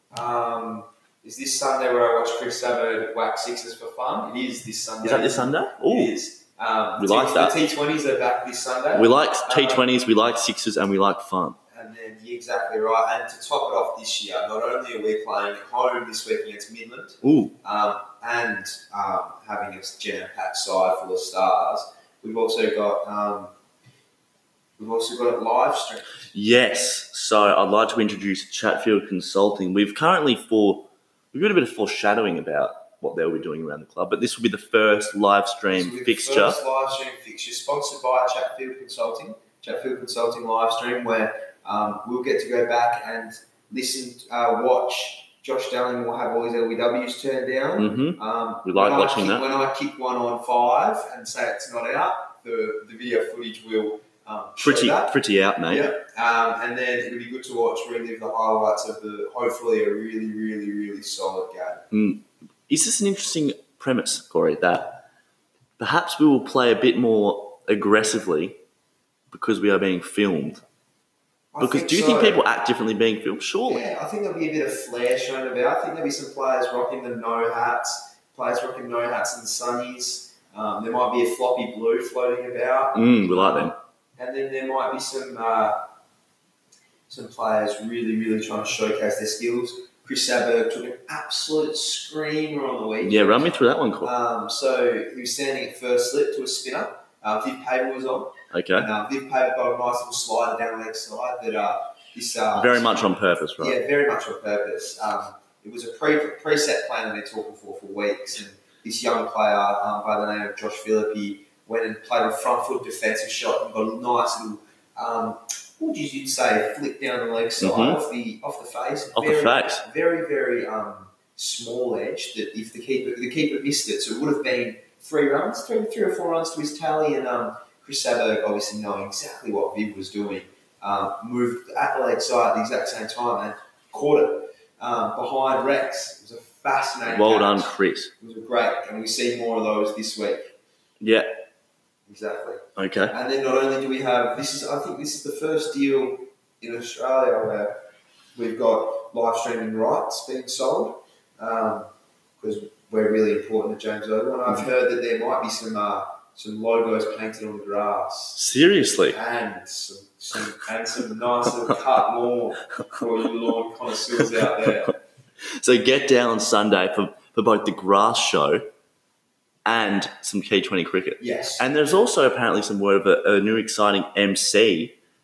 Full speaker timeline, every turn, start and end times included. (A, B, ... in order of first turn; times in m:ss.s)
0:00.1-0:09.8 A
0:05.0-0:06.1 B
0:07.0-0:07.6 B
0:09.0-0:11.6 B
0:11.7-0:23.5 A
0:17.2-0:17.6 B
0:24.8-0:26.2 A
0:26.3-0:36.6 B
0:35.7-1:01.8 A
0:47.8-0:49.4 B
0:54.6-0:55.9 B
1:01.9-1:05.0 B
1:05.8-1:08.6 B
1:09.3-1:10.6 B
1:11.5-1:12.4 A
1:11.6-1:13.9 B
1:13.7-1:25.8 A
1:23.0-1:23.8 B
1:27.1-1:33.5 A
1:33.0-1:34.1 B
1:34.0-1:43.0 A
1:38.5-1:38.9 B
1:42.6-1:43.8 B
1:43.6-2:20.5 A
1:57.6-1:58.0 B
1:59.2-1:59.8 B
2:17.1-2:18.1 B
2:21.0-2:21.3 B
2:22.1-2:27.8 A
2:22.8-2:23.2 B
2:28.4-2:31.9 A
2:32.4-2:38.4 A
2:38.4-2:39.2 B
2:39.1-2:45.0 A
2:45.4-2:48.7 B
2:49.6-2:55.0 B
2:51.2-2:51.7 A